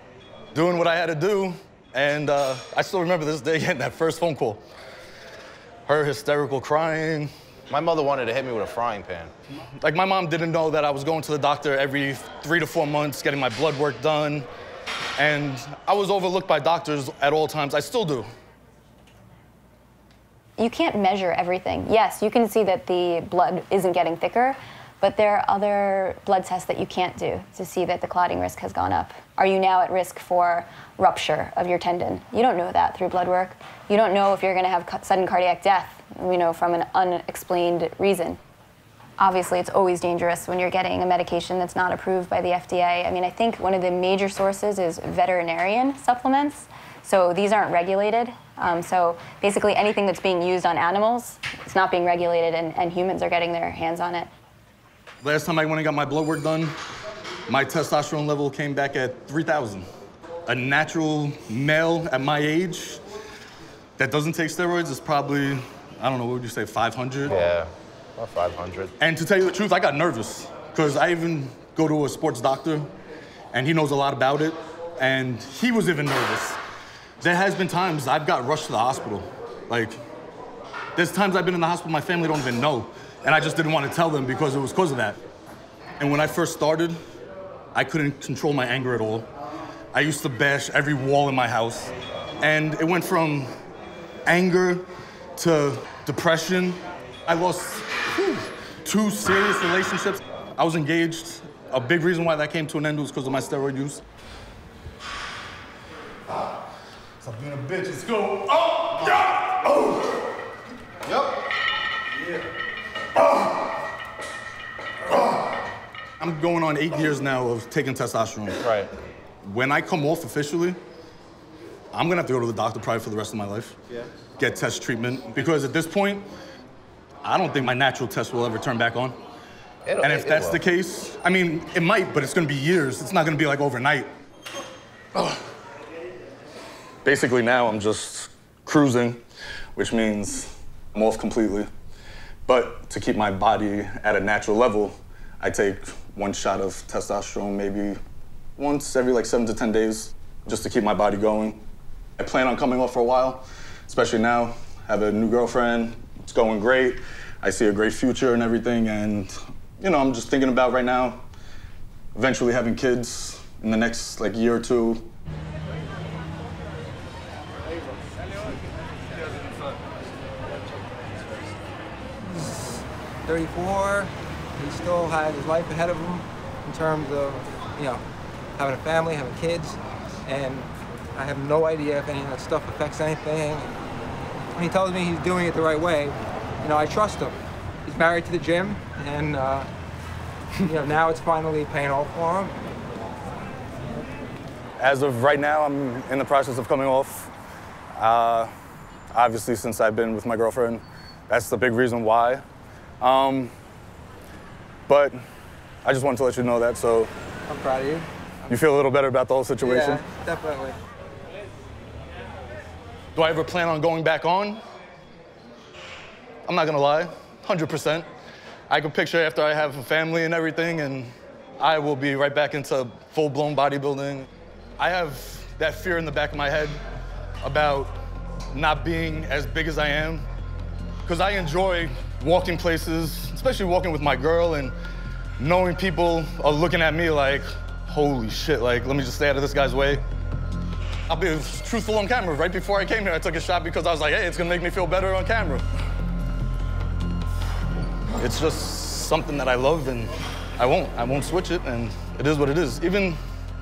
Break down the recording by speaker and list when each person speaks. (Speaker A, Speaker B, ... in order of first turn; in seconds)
Speaker A: 0.5-4.6, 5.9-7.3, 9.8-14.5, 15.2-18.3, 55.2-56.8, 57.5-59.9, 60.5-63.0, 64.0-67.4, 69.0-72.9, 73.5-76.6, 77.2-80.0, 81.0-85.2, 86.0-87.0, 87.8-89.3, 89.9-93.5, 94.3-94.9, 95.4-104.0, 107.2-110.0, 116.2-118.6, 119.4-120.8, 121.9-123.8, 124.4-126.3, 127.2-129.2, 130.0-134.1, 137.1-139.2, 139.8-141.7, 142.5-148.0, 148.6-151.6, 152.2-161.2, 162.2-165.1, 194.8-197.3, 198.0-198.5, 199.1-202.4, 203.0-203.5, 204.9-205.2, 205.8-207.1, 208.5-210.0, 213.2-214.6, 216.5-218.1, 218.7-224.3, 224.8-226.8, 227.4-228.0, 228.5-230.3, 231.1-234.7, 235.4-240.0, 241.1-245.6, 248.2-253.2
Speaker B: 7.7-9.3, 67.3-68.9, 118.6-118.9, 129.9-130.6
Speaker C: 20.6-38.4, 39.2-54.3
Speaker D: 172.2-178.0, 178.6-183.7, 184.5-189.7, 190.6-192.6, 207.5-208.1, 209.6-210.8